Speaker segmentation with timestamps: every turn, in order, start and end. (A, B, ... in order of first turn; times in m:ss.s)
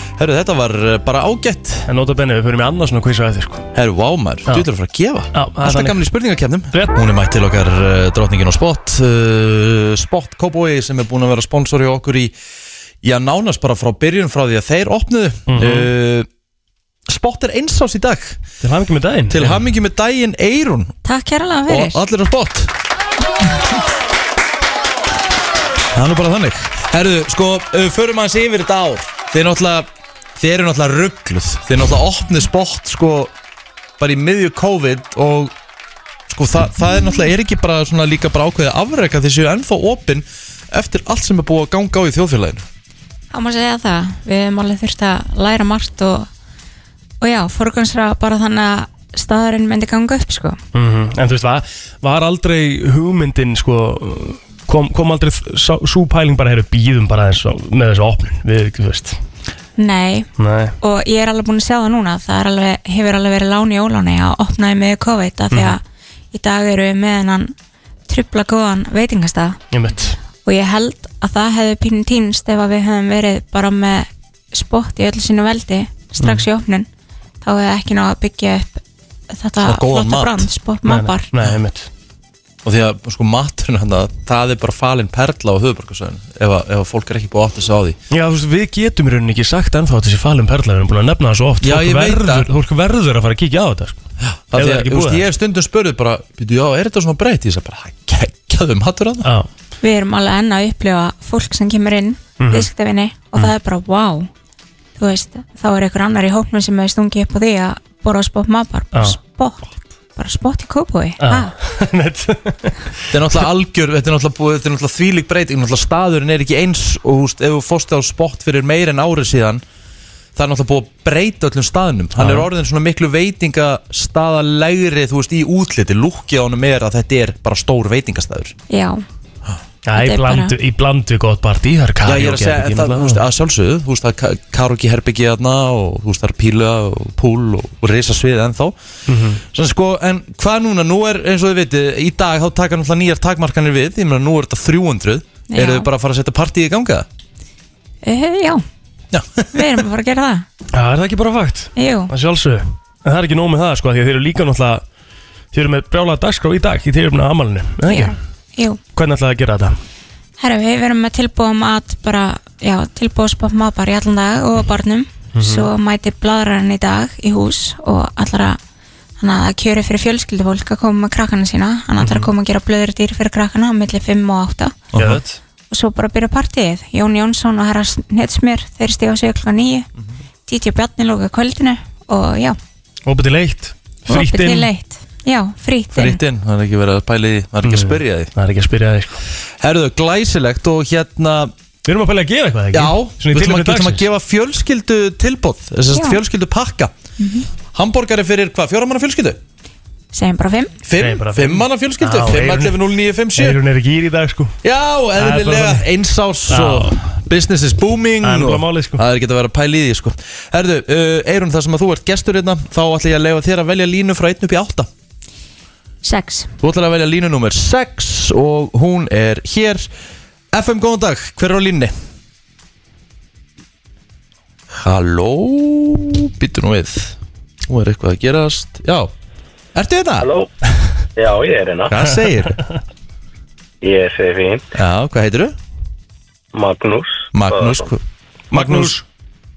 0:00.2-0:01.9 A
0:01.9-0:03.7 B
0:03.8-0:12.3 A
0:05.3-0:06.0 B
0:13.0-0:16.3 A
0:15.5-0:15.9 B
0:17.1-0:18.4 A
0:18.6-0:19.7 B
0:19.3-0:21.0 A
0:21.0-0:22.0 C
0:21.7-0:22.7 A
0:26.0-0:29.9 A
0:30.4-0:33.3 A
0:34.0-0:35.5 A
0:36.3-0:42.7 A
0:43.3-0:46.3 C
0:47.2-0:50.6 C
0:50.7-0:59.2 B
0:59.8-1:05.8 C
1:00.4-1:00.8 B
1:05.5-1:05.8 B
1:06.3-1:07.5 C
1:08.1-1:09.6 C
1:09.7-1:10.2 B
1:10.4-1:16.9 C
1:16.2-1:16.5 B
1:17.4-1:18.8 C
1:19.3-1:21.3 C
1:19.6-1:20.5 A
1:20.8-1:21.9 B
1:22.6-1:28.0 A
1:28.1-1:35.3 B
1:31.6-1:32.5 A
1:34.2-1:39.3 A
1:39.2-1:39.5 B
1:39.8-1:44.3 C
1:42.4-1:42.7 B
1:45.0-1:51.5 C
1:48.9-1:49.2 B
1:51.2-1:52.9 B
1:53.1-1:59.6 A
2:00.4-2:08.5 A
2:02.2-2:02.5 B
2:08.7-2:09.0 C
2:09.9-2:13.3 B
2:10.0-2:10.6 C
2:12.0-2:18.7 A
2:19.1-2:19.4 B
2:19.5-2:27.1 A
2:25.5-2:25.9 C
2:28.0-2:28.6 C
2:29.1-2:29.6 A
2:29.5-2:30.4 C
2:30.7-2:34.8 B
2:31.8-2:32.1 C
2:35.5-2:38.2 B
2:37.9-2:38.8 C
2:38.9-2:39.8 B
2:40.4-2:48.6 C
2:45.4-2:45.7 B
2:49.2-2:54.8 C
2:52.0-2:52.3 B
2:54.9-2:55.2 A
2:55.0-2:55.4 B
2:55.7-2:59.9 C
3:00.5-3:02.6 C
3:03.1-3:04.7 B
3:04.1-3:06.2 C
3:06.0-3:08.3 A
3:07.6-3:09.2 B
3:09.6-3:11.5 A
3:11.8-3:14.0 B
3:12.7-3:16.9 A
3:15.9-3:16.2 C
3:17.2-3:17.5 C
3:17.7-3:19.4 A
3:20.1-3:20.8 C
3:20.8-3:23.6 A
3:21.0-3:22.8 B
3:23.4-3:24.6 B
3:24.6-3:34.9 A
3:25.2-3:25.9 B
3:26.5-3:27.0 B
3:28.2-3:29.0 B
3:36.0-3:36.5 C
3:36.6-3:39.9 A
3:40.5-3:41.9 A
3:44.8-3:47.2 A
3:47.7-3:49.1 A
3:49.8-3:50.3 A
3:50.2-3:50.5 D
3:51.2-3:51.9 D
3:51.9-3:52.6 A
3:53.8-3:54.6 D
3:54.8-3:55.6 A
3:56.5-3:57.9 D
3:57.3-3:59.0 A
3:58.5-3:59.0 B